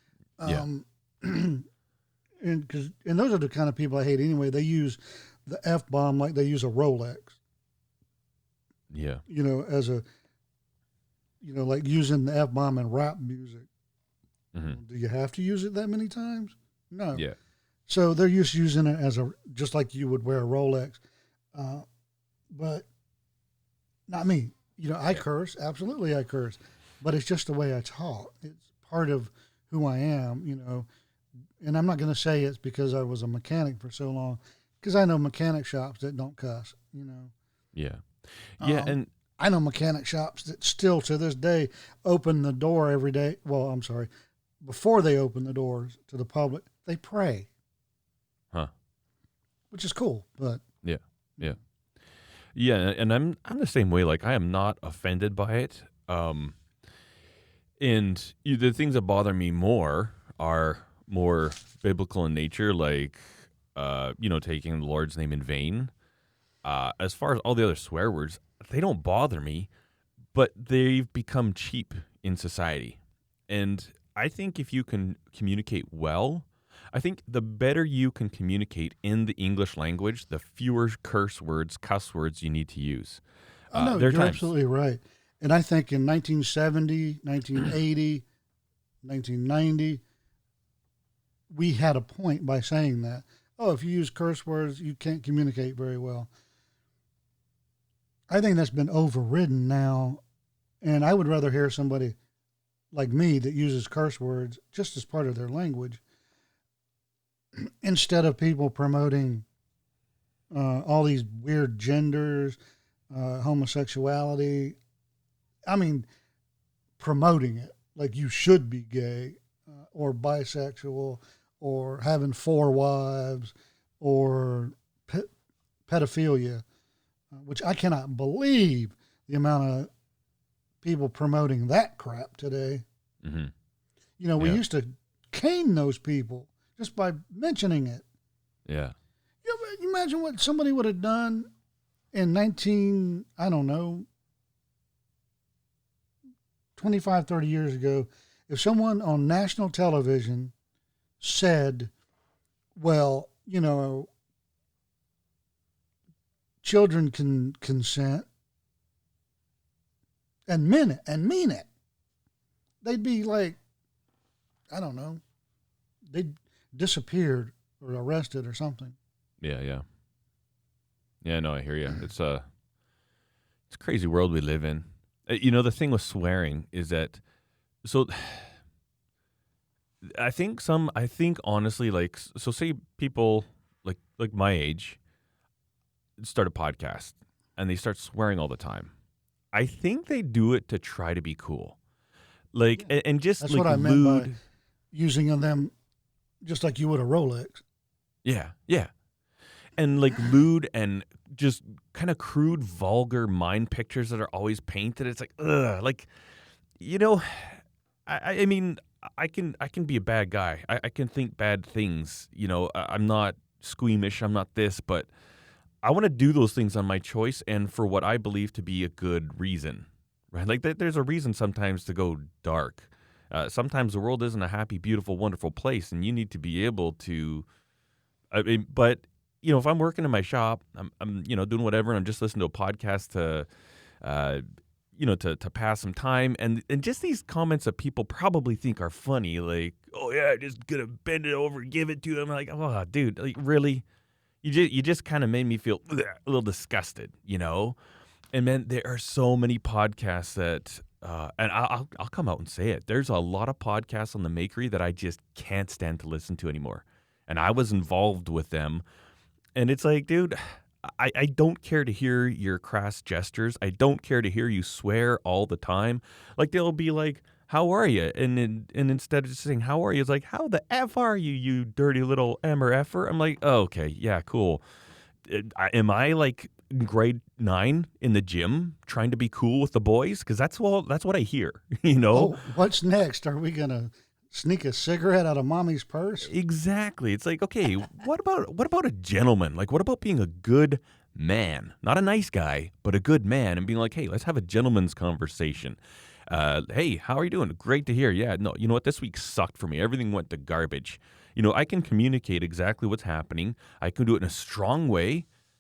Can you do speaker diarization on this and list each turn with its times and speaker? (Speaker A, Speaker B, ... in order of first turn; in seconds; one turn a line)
Speaker A: 0.4-1.6
Speaker A: 2.4-7.4
Speaker B: 8.9-9.2
Speaker A: 9.3-10.0
Speaker A: 11.4-13.7
Speaker A: 14.7-17.2
Speaker A: 17.9-21.0
Speaker A: 21.6-21.9
Speaker A: 22.5-22.9
Speaker A: 24.1-30.9
Speaker A: 31.6-37.3
Speaker B: 37.7-39.1
Speaker A: 38.6-44.1
Speaker A: 44.6-47.5
Speaker A: 49.7-50.6
Speaker B: 50.8-51.6
Speaker B: 52.5-56.6
Speaker B: 57.8-65.9
Speaker B: 66.6-69.7
Speaker B: 70.3-84.5
Speaker A: 83.7-88.2
Speaker A: 89.0-90.0
Speaker A: 91.5-96.3
Speaker A: 98.3-100.2
Speaker A: 100.8-102.2
Speaker A: 102.9-106.0
Speaker A: 107.6-109.5
Speaker A: 110.5-112.6
Speaker A: 113.1-114.8
Speaker A: 115.7-116.1
Speaker A: 117.0-125.3
Speaker A: 125.9-126.6
Speaker A: 127.3-129.9
Speaker A: 130.8-132.8
Speaker B: 133.2-133.5
Speaker A: 134.2-138.0
Speaker B: 138.7-138.9
Speaker A: 139.4-141.5
Speaker A: 142.1-144.1
Speaker A: 146.8-150.5
Speaker A: 151.2-151.9
Speaker A: 152.8-154.1
Speaker A: 156.6-158.3
Speaker A: 160.5-161.7
Speaker A: 162.8-163.6
Speaker A: 164.7-165.2
Speaker A: 166.1-169.0
Speaker B: 169.4-169.8
Speaker B: 171.2-172.4
Speaker B: 173.7-177.2
Speaker B: 177.8-178.6
Speaker B: 180.0-185.0
Speaker B: 186.2-188.9
Speaker B: 189.5-191.8
Speaker B: 192.5-194.4
Speaker A: 193.4-194.3
Speaker A: 194.9-195.7
Speaker A: 196.4-197.6
Speaker B: 198.2-198.9
Speaker B: 199.8-206.1
Speaker B: 206.8-215.1
Speaker B: 215.8-227.5
Speaker B: 228.3-233.5
Speaker B: 234.0-234.4
Speaker B: 234.9-243.8
Speaker B: 244.4-247.8
Speaker B: 248.3-258.8
Speaker B: 259.6-274.6
Speaker B: 275.2-282.4
Speaker A: 282.1-286.3
Speaker B: 286.2-305.3